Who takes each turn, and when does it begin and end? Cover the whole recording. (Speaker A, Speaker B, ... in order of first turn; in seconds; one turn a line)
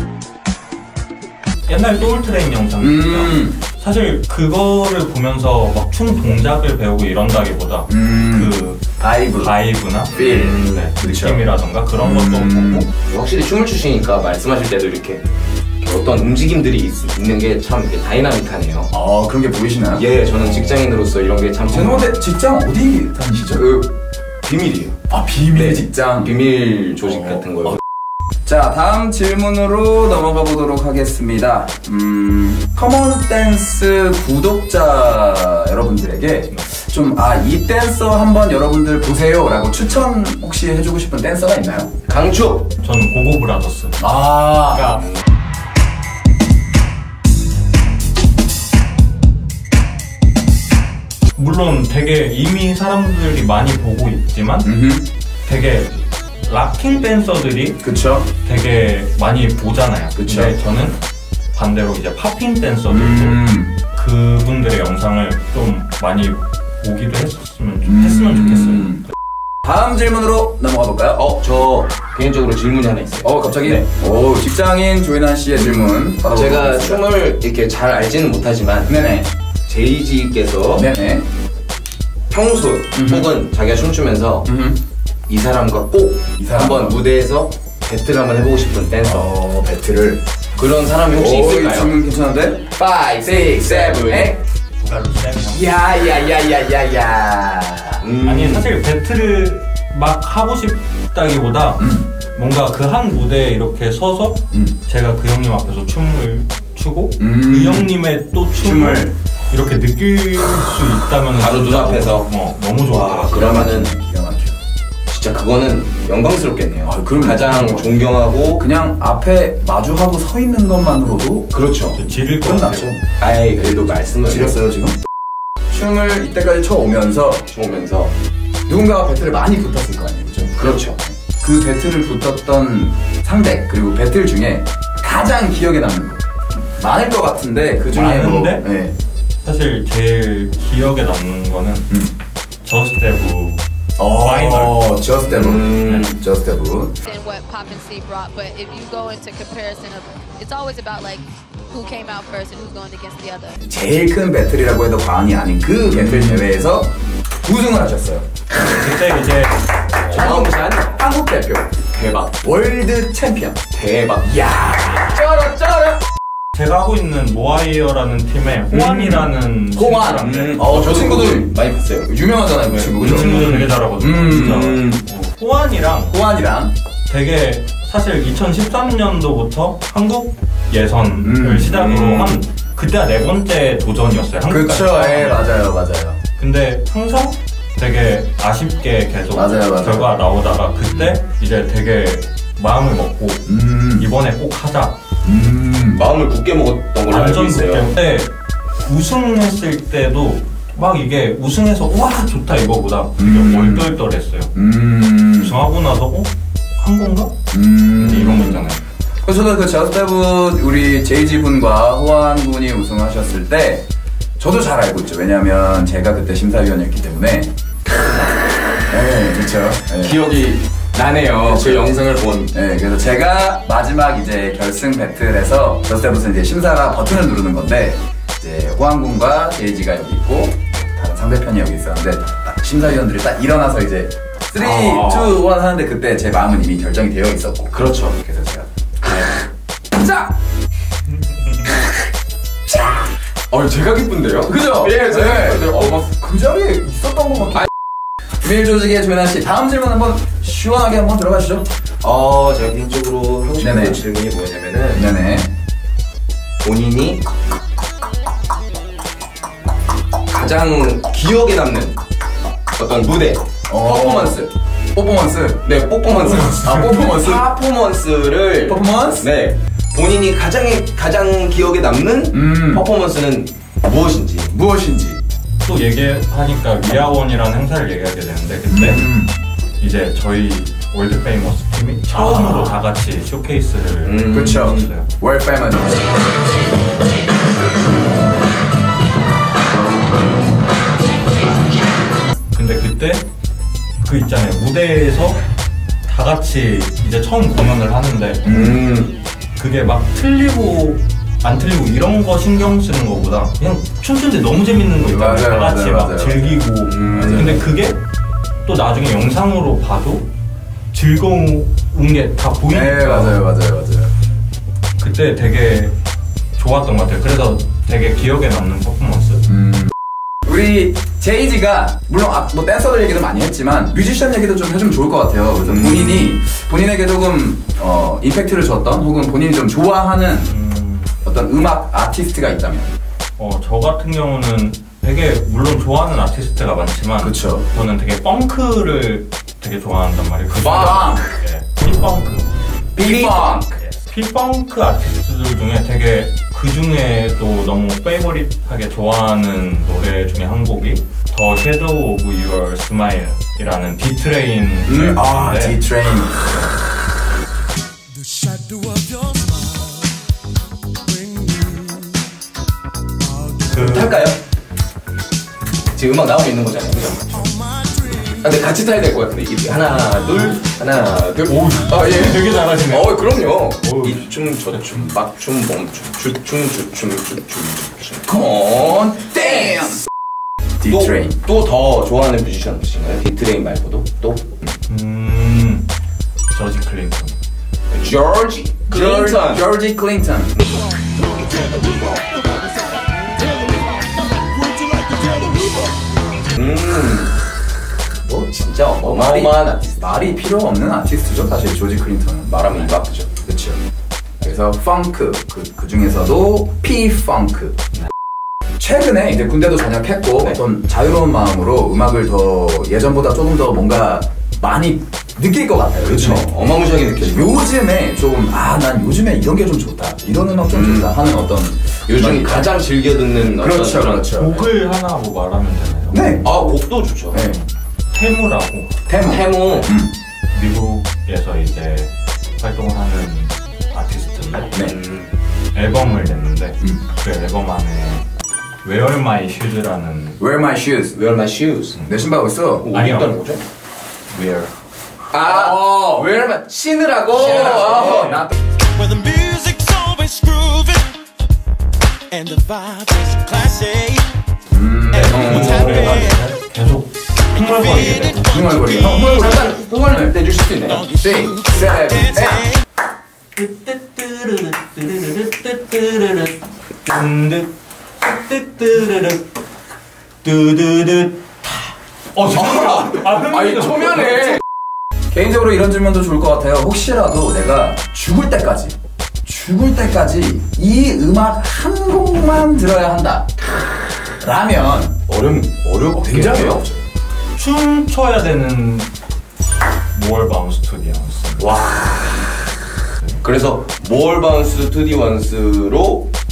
Speaker A: 1.7-12.9
Speaker B: 2.8-3.6
Speaker B: 7.9-9.5
Speaker B: 10.1-11.5
Speaker C: 10.2-10.9
Speaker B: 12.0-12.9
Speaker C: 13.1-15.3
Speaker C: 15.8-18.9
Speaker B: 18.9-20.8
Speaker C: 19.9-22.2
Speaker B: 21.7-23.6
Speaker C: 23.5-23.9
Speaker C: 24.4-25.0
Speaker B: 25.1-26.4
Speaker C: 25.5-27.8
Speaker B: 27.1-27.8
Speaker B: 28.4-41.9
Speaker C: 42.1-42.7
Speaker A: 42.8-44.0
Speaker B: 44.0-45.0
Speaker A: 44.7-45.0
Speaker A: 51.4-54.7
Speaker B: 54.6-55.1
Speaker A: 55.5-57.8
Speaker B: 57.8-58.3
Speaker A: 58.4-61.0
Speaker B: 60.2-60.5
Speaker A: 61.5-69.1
Speaker B: 62.9-63.8
Speaker B: 67.8-69.0
Speaker B: 69.6-71.2
Speaker C: 71.2-73.8
Speaker B: 73.2-77.1
Speaker C: 75.5-78.9
Speaker B: 78.9-79.3
Speaker C: 79.7-80.9
Speaker B: 80.7-81.3
Speaker C: 82.3-84.5
Speaker B: 82.9-83.3
Speaker B: 84.5-84.8
Speaker C: 85.3-89.3
Speaker B: 86.4-87.0
Speaker B: 89.0-90.2
Speaker C: 90.6-92.0
Speaker B: 91.1-94.4
Speaker C: 93.2-94.4
Speaker A: 94.8-95.8
Speaker B: 95.5-98.0
Speaker C: 98.0-98.7
Speaker A: 98.2-113.6
Speaker B: 101.8-102.1
Speaker B: 107.2-107.9
Speaker B: 108.5-109.1
Speaker C: 111.3-112.3
Speaker C: 112.9-113.9
Speaker B: 113.2-114.6
Speaker C: 115.1-118.6
Speaker B: 116.8-118.0
Speaker B: 118.5-121.5
Speaker C: 121.5-122.0
Speaker A: 121.9-123.0
Speaker B: 122.4-125.0
Speaker C: 123.2-124.6
Speaker B: 125.7-127.5
Speaker C: 127.5-128.1
Speaker B: 128.7-136.2
Speaker C: 130.6-131.0
Speaker B: 136.8-138.9
Speaker A: 137.9-138.7
Speaker A: 139.4-141.9
Speaker A: 142.6-144.9
Speaker B: 144.0-146.9
Speaker C: 145.3-146.2
Speaker D: 147.0-153.6
Speaker B: 153.6-158.3
Speaker C: 155.9-156.4
Speaker A: 158.7-159.6
Speaker C: 160.1-161.0
Speaker B: 160.1-163.6
Speaker C: 161.9-162.4
Speaker C: 163.7-164.4
Speaker B: 164.2-165.9
Speaker C: 165.2-165.9
Speaker A: 166.5-171.0
Speaker B: 168.7-171.5
Speaker C: 170.2-172.1
Speaker B: 172.1-174.8
Speaker C: 172.6-173.5
Speaker A: 173.0-176.2
Speaker C: 174.3-175.0
Speaker B: 176.1-176.7
Speaker A: 177.1-185.6
Speaker B: 181.2-182.4
Speaker B: 184.4-186.2
Speaker A: 186.4-195.0
Speaker B: 189.3-190.1
Speaker B: 193.5-194.1
Speaker B: 195.2-196.1
Speaker C: 195.9-197.9
Speaker A: 197.1-198.3
Speaker A: 198.8-204.5
Speaker B: 203.2-203.9
Speaker B: 204.6-205.6
Speaker A: 205.4-207.3
Speaker B: 207.5-208.7
Speaker A: 208.0-208.8
Speaker B: 209.2-213.8
Speaker B: 214.4-217.5
Speaker B: 218.9-220.2
Speaker C: 220.0-222.5
Speaker B: 221.4-222.0
Speaker B: 222.5-237.8
Speaker C: 234.6-235.4
Speaker C: 237.7-239.3
Speaker B: 239.9-240.4
Speaker B: 242.7-243.1
Speaker C: 243.5-246.0
Speaker B: 244.5-247.7
Speaker B: 248.4-251.7
Speaker C: 252.0-255.0
Speaker B: 253.6-254.0
Speaker B: 254.9-255.5
Speaker C: 256.6-257.2
Speaker C: 260.3-262.0
Speaker C: 262.8-264.5
Speaker B: 263.7-265.7
Speaker C: 265.6-274.5
Speaker B: 266.3-267.5
Speaker B: 268.7-269.3
Speaker B: 272.3-272.9
Speaker B: 274.5-275.2
Speaker A: 275.6-279.1
Speaker B: 278.7-279.3
Speaker A: 279.8-285.1
Speaker B: 282.1-282.7
Speaker C: 284.0-284.9
Speaker B: 284.3-286.0
Speaker A: 292.5-293.2
Speaker A: 294.0-295.4
Speaker A: 296.1-298.6
Speaker B: 298.4-298.9
Speaker C: 298.5-299.2
Speaker A: 299.6-308.0
Speaker B: 305.0-307.6
Speaker C: 306.9-307.6
Speaker A: 308.6-310.3
Speaker A: 310.9-313.4
Speaker B: 312.7-314.1
Speaker A: 315.0-315.9
Speaker A: 316.6-319.4
Speaker B: 319.5-319.9
Speaker B: 320.5-330.5
Speaker C: 325.6-326.4
Speaker A: 330.5-331.1
Speaker B: 331.2-332.9
Speaker A: 333.4-342.5
Speaker B: 337.2-337.7
Speaker B: 340.6-341.4
Speaker B: 343.0-343.8
Speaker C: 343.0-343.5
Speaker A: 343.1-355.9
Speaker B: 354.9-356.5
Speaker A: 363.6-364.2
Speaker C: 363.7-364.4
Speaker C: 365.9-367.6
Speaker C: 368.3-379.9
Speaker A: 371.4-375.1
Speaker B: 378.3-380.0
Speaker B: 380.8-381.4
Speaker C: 380.9-384.6
Speaker A: 384.9-385.9
Speaker A: 386.5-387.4
Speaker C: 387.9-389.6
Speaker B: 388.9-390.5
Speaker C: 396.5-397.4
Speaker B: 398.2-403.8
Speaker C: 398.6-400.2
Speaker C: 402.5-403.3
Speaker B: 404.4-407.8
Speaker B: 408.8-422.8
Speaker C: 416.0-417.6
Speaker C: 420.7-421.2
Speaker C: 422.1-424.3
Speaker B: 423.6-424.7
Speaker A: 424.3-426.5
Speaker B: 426.1-426.5
Speaker C: 426.4-427.4
Speaker B: 427.3-427.6
Speaker A: 428.1-429.0
Speaker B: 429.1-430.1
Speaker C: 429.2-429.9
Speaker A: 429.5-429.9
Speaker A: 430.5-434.7
Speaker C: 434.8-435.3
Speaker A: 435.8-438.3
Speaker A: 438.8-440.4
Speaker B: 440.4-441.2
Speaker C: 441.1-442.0
Speaker B: 442.0-442.9
Speaker C: 442.8-443.6
Speaker A: 442.9-443.4
Speaker C: 445.3-448.4
Speaker B: 445.4-446.3
Speaker B: 447.3-448.5
Speaker A: 447.4-448.5
Speaker E: 449.3-450.8
Speaker E: 452.3-454.1
Speaker B: 454.7-456.2
Speaker A: 455.1-458.6
Speaker B: 458.4-460.3
Speaker C: 459.2-461.1
Speaker B: 461.1-462.7
Speaker A: 463.6-469.5
Speaker A: 470.4-474.6
Speaker C: 472.6-474.6
Speaker B: 475.3-483.5
Speaker B: 484.4-485.2
Speaker C: 485.3-486.9
Speaker B: 486.1-487.0
Speaker A: 487.6-489.1
Speaker A: 490.1-491.6
Speaker C: 491.6-492.7
Speaker C: 493.4-496.3